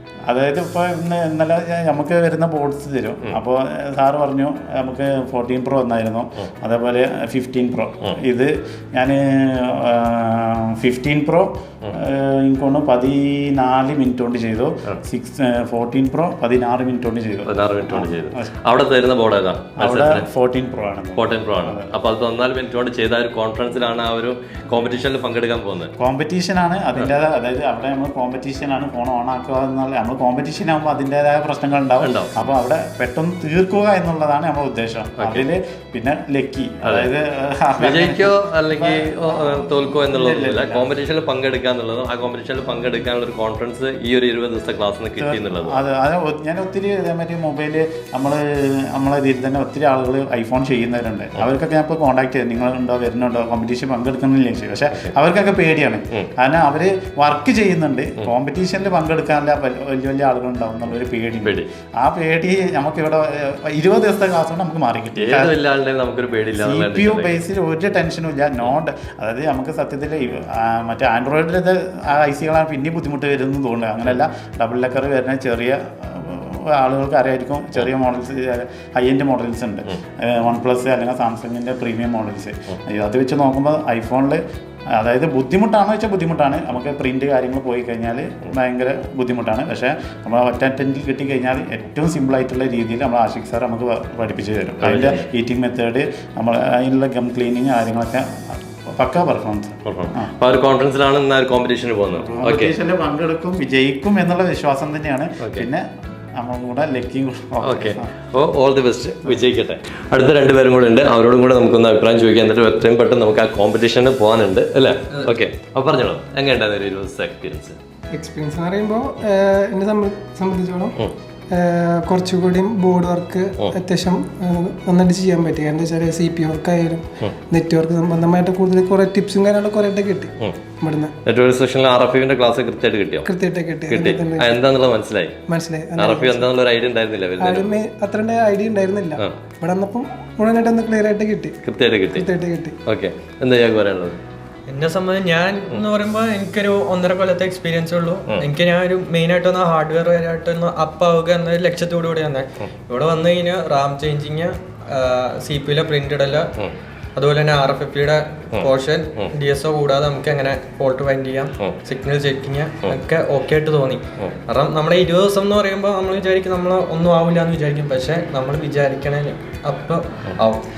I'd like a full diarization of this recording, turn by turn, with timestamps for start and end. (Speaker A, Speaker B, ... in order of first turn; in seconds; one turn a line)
Speaker A: 0.3-18.5
Speaker B: 17.5-20.3
Speaker A: 19.8-21.9
Speaker B: 21.2-25.9
Speaker A: 26.0-40.9
Speaker B: 32.0-32.4
Speaker B: 35.2-35.5
Speaker B: 36.8-37.1
Speaker B: 37.8-45.8
Speaker A: 45.2-65.5
Speaker B: 65.2-67.4
Speaker A: 66.6-84.4
Speaker A: 85.0-100.3
Speaker B: 94.8-95.2
Speaker B: 99.8-102.7
Speaker A: 102.2-105.8
Speaker B: 105.4-105.7
Speaker A: 106.4-108.1
Speaker B: 107.6-117.8
Speaker C: 118.1-121.0
Speaker C: 121.5-131.1
Speaker B: 131.2-133.3
Speaker C: 133.2-134.6
Speaker B: 133.9-135.4
Speaker C: 135.5-136.5
Speaker B: 136.0-137.8
Speaker C: 137.4-141.6
Speaker B: 141.6-142.3
Speaker C: 142.1-142.8
Speaker B: 142.8-144.2
Speaker D: 144.7-156.5
Speaker D: 157.2-170.6
Speaker B: 158.5-159.3